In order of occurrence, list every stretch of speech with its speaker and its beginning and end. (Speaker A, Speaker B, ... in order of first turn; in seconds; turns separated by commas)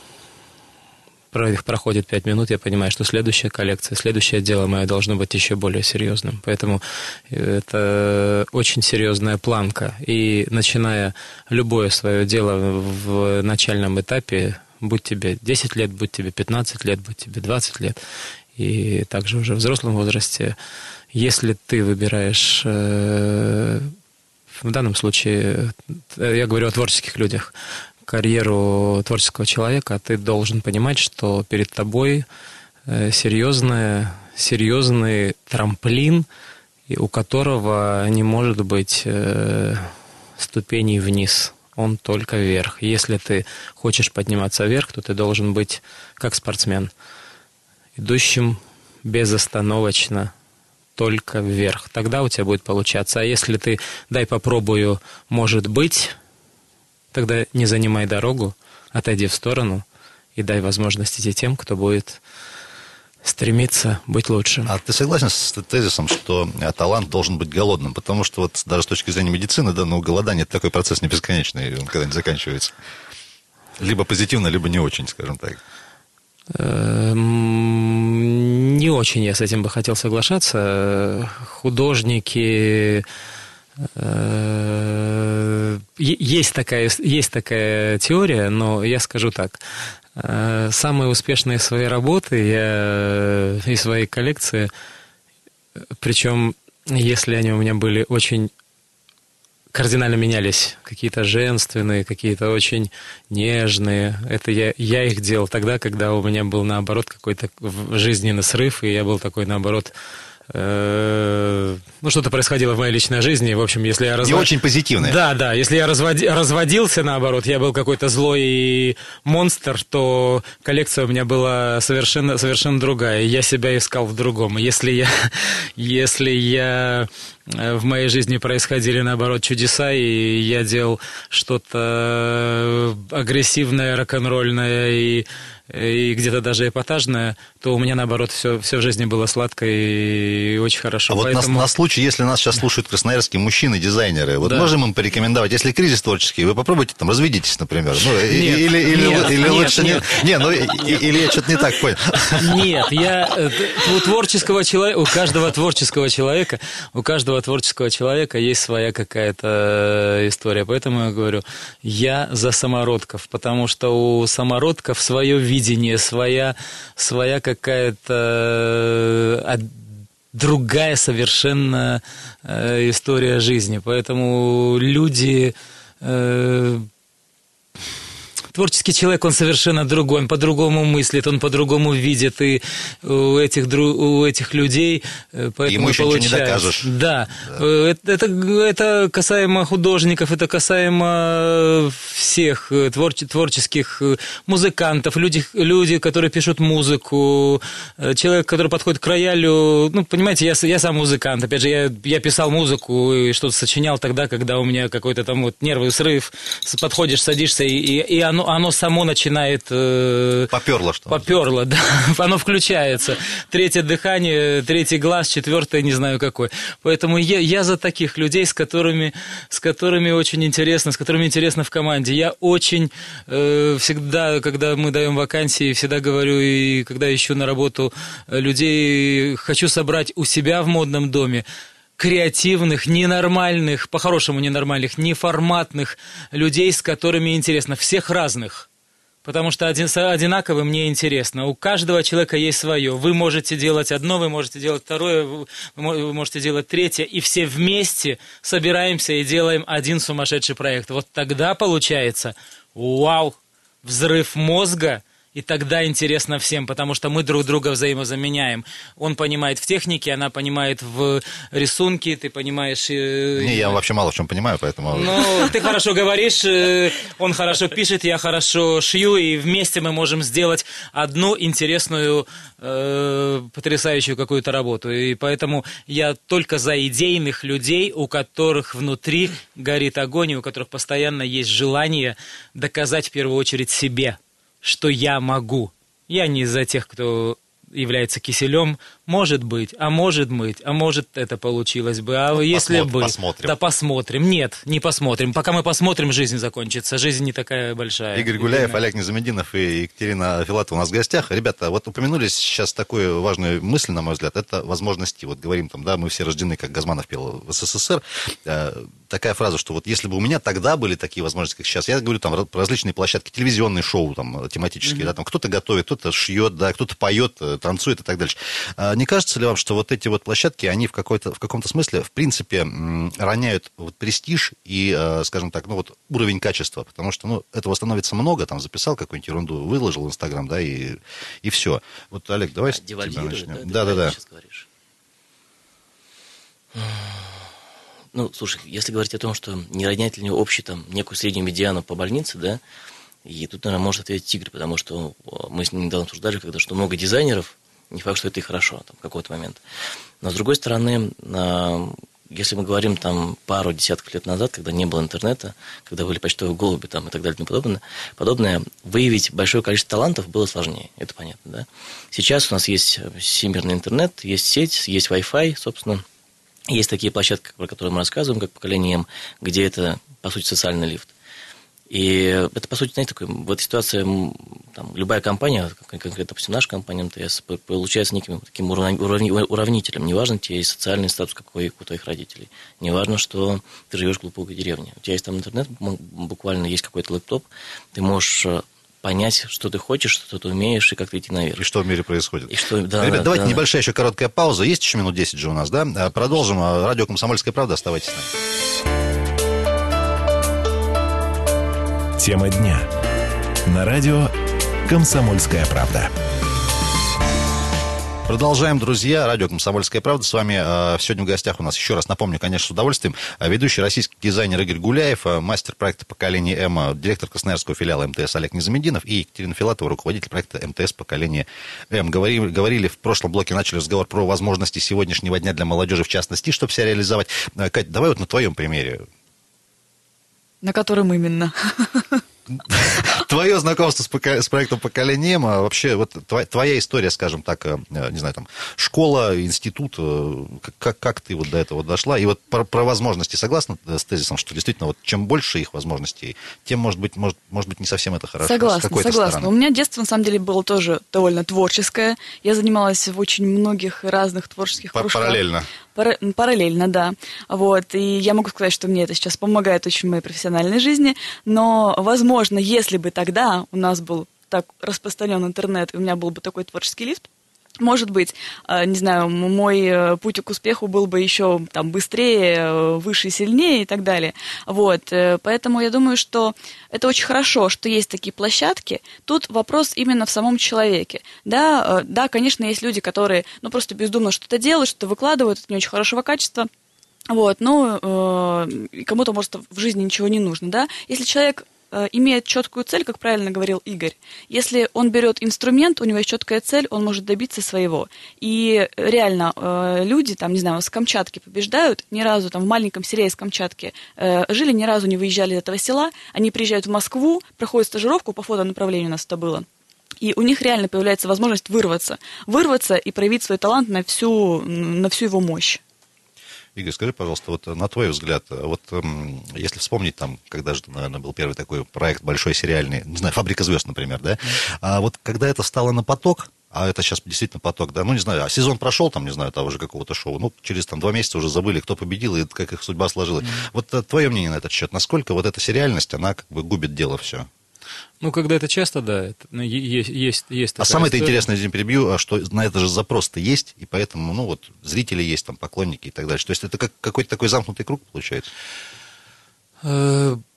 Speaker A: 1.3-18.0, Speaker A: 18.5-20.6, Speaker A: 21.1-23.9, Speaker A: 24.6-32.2, Speaker A: 32.9-36.3, Speaker A: 36.9-46.9, Speaker A: 48.0-50.3, Speaker A: 51.0-56.1, Speaker A: 57.1-62.2, Speaker A: 63.2-64.7, Speaker B: 64.7-72.7, Speaker B: 73.8-75.6, Speaker A: 76.5-83.0, Speaker A: 83.8-89.6, Speaker A: 90.2-94.7, Speaker A: 96.0-98.5, Speaker A: 99.7-109.9, Speaker A: 110.5-141.7, Speaker B: 114.2-115.2, Speaker B: 141.1-152.5, Speaker A: 144.4-144.7, Speaker A: 148.3-150.9, Speaker A: 152.3-176.9, Speaker A: 178.5-210.5, Speaker B: 185.7-186.9, Speaker B: 210.5-211.3, Speaker A: 211.1-231.4, Speaker A: 232.0-238.7, Speaker A: 239.2-263.8, Speaker B: 263.4-265.5, Speaker A: 264.9-298.8, Speaker B: 292.3-293.5, Speaker B: 298.1-334.1, Speaker C: 332.7-334.7, Speaker C: 336.7-337.5, Speaker C: 338.1-342.6, Speaker C: 343.2-349.6, Speaker C: 350.2-366.0, Speaker C: 366.7-371.1, Speaker C: 371.9-391.6, Speaker B: 391.6-398.3, Speaker C: 392.5-393.6, Speaker D: 402.2-402.9, Speaker D: 403.7-404.3, Speaker D: 404.9-406.1, Speaker B: 408.3-429.0, Speaker E: 430.6-432.2, Speaker B: 432.5-449.5, Speaker E: 448.4-455.4, Speaker B: 454.9-455.7, Speaker E: 455.9-467.3, Speaker E: 467.8-486.7, Speaker E: 487.3-509.6, Speaker E: 510.2-515.8, Speaker B: 516.8-537.5, Speaker A: 538.2-541.4, Speaker B: 540.8-548.5, Speaker A: 549.8-550.4